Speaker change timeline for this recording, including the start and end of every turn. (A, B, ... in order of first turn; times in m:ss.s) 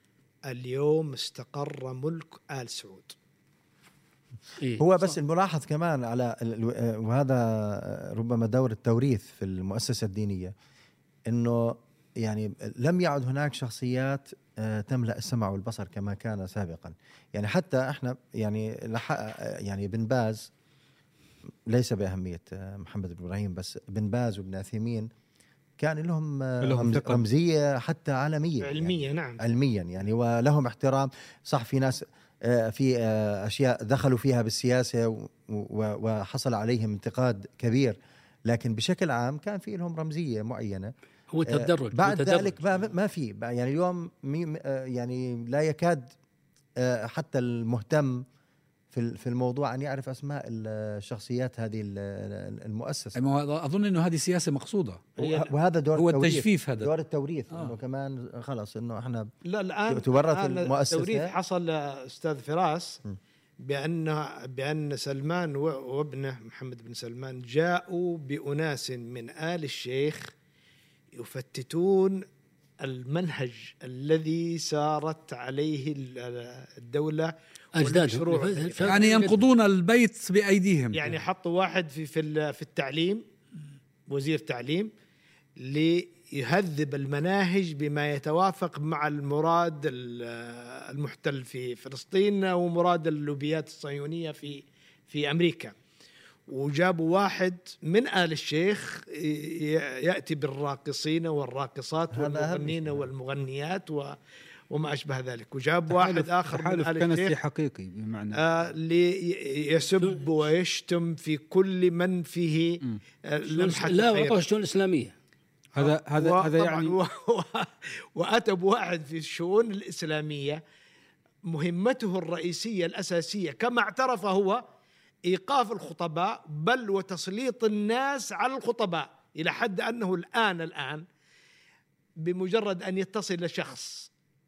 0:00.4-0:03.1 A
0:04.6-0:05.1 B
0:04.8-0:10.5 C
0:11.3-0:20.5 C
0:21.7-0:25.1 C
0:25.8-0:38.0 C
0:26.6-0:27.2 D
0:28.6-0:29.4 A
0:38.5-0:40.9 C
0:41.3-0:42.6 B
0:41.5-0:46.1 C
0:46.8-0:48.2 C
0:48.9-0:53.2 C
0:53.1-0:55.1 E
0:55.2-0:59.3 C
0:55.2-0:55.5 A
0:56.0-0:56.9 E
0:59.4-1:03.0 A
0:59.9-1:01.3 C
1:03.6-1:10.3 A
1:11.2-1:12.2 A
1:12.8-1:19.3 A
1:17.8-1:19.4 B
1:18.8-1:21.0 E
1:20.9-1:23.2 A
1:24.1-1:24.9 A
1:25.6-1:35.7 A
1:36.5-1:44.2 A
1:42.1-1:43.1 C
1:44.7-1:47.3 A
1:45.9-1:48.4 D
1:48.4-1:54.4 A
1:53.5-1:55.1 B
1:55.8-1:57.0 D
1:55.8-2:00.6 A
2:01.4-2:04.6 A
2:05.3-2:11.0 A
2:12.2-2:14.1 A